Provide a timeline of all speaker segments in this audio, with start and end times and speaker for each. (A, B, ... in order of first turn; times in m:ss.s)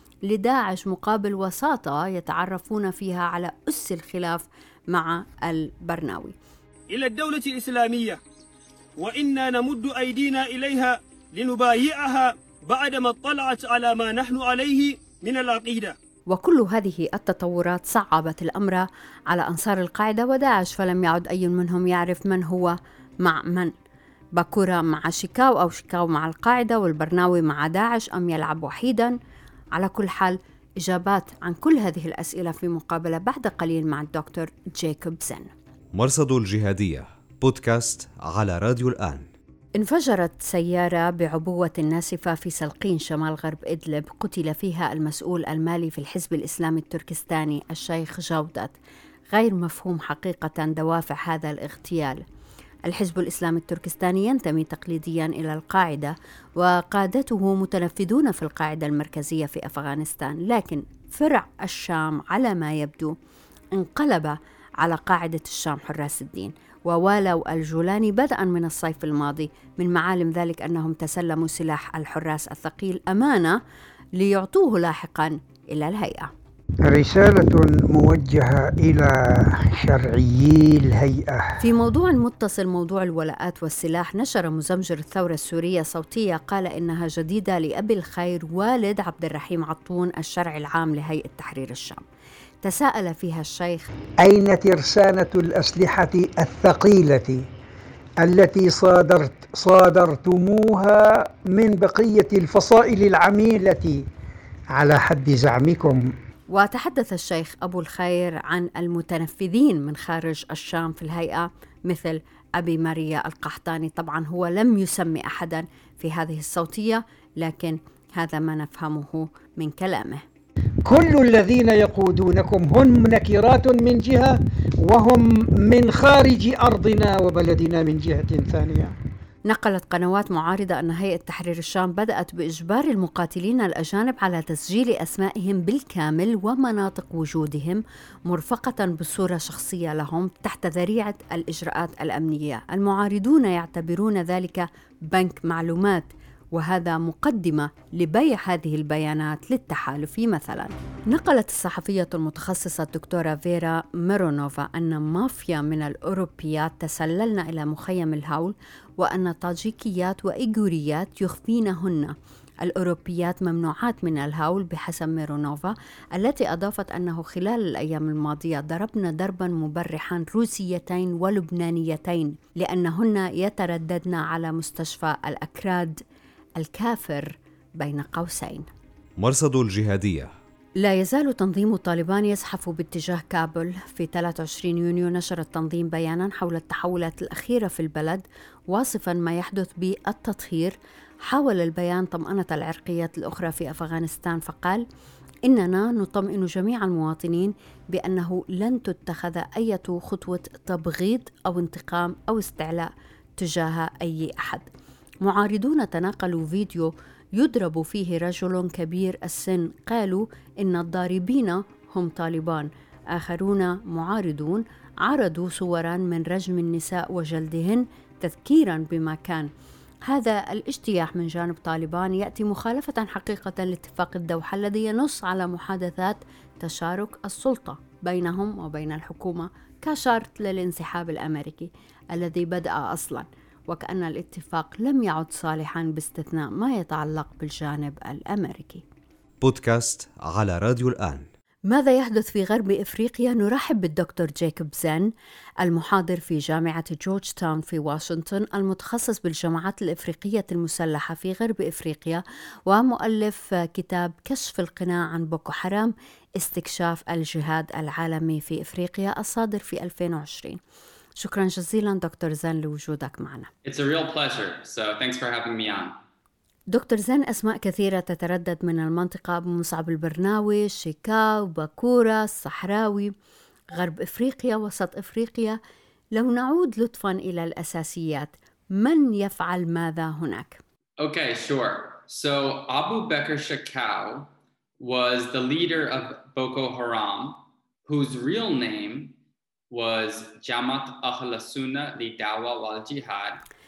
0:00.2-0:06.3 A
0:06.9-0:08.2 B
0:09.0-0:15.9 B
0:16.3-0:23.7 A
0:24.4-0:29.2 A
0:29.7-0:35.5 A
0:35.9-0:39.3 C
0:39.8-0:48.7 A
0:49.3-0:52.2 A
0:52.8-1:03.1 A
1:03.7-1:13.6 A
1:14.2-1:16.3 A
1:16.8-1:21.6 D
1:21.6-1:32.0 A
1:32.6-1:33.9 A
1:34.2-1:37.5 D
1:38.2-1:44.0 D
1:44.7-1:46.1 D
1:46.5-2:00.2 A
2:00.8-2:08.9 D
2:09.5-2:56.0 A
2:56.6-2:58.7 A
2:59.2-3:00.3 C
3:00.8-3:14.8 A
3:15.4-3:24.7 A
3:25.2-3:39.5 A
3:40.1-3:58.8 A
3:59.4-4:01.3 C
4:01.7-4:05.1 A
4:05.6-4:20.6 A
4:21.2-4:23.5 A
4:23.6-4:26.0 E
4:26.7-4:33.1 A
4:33.7-4:35.6 A
4:36.1-4:40.6 A
4:41.0-4:49.1 E
4:49.7-4:53.4 E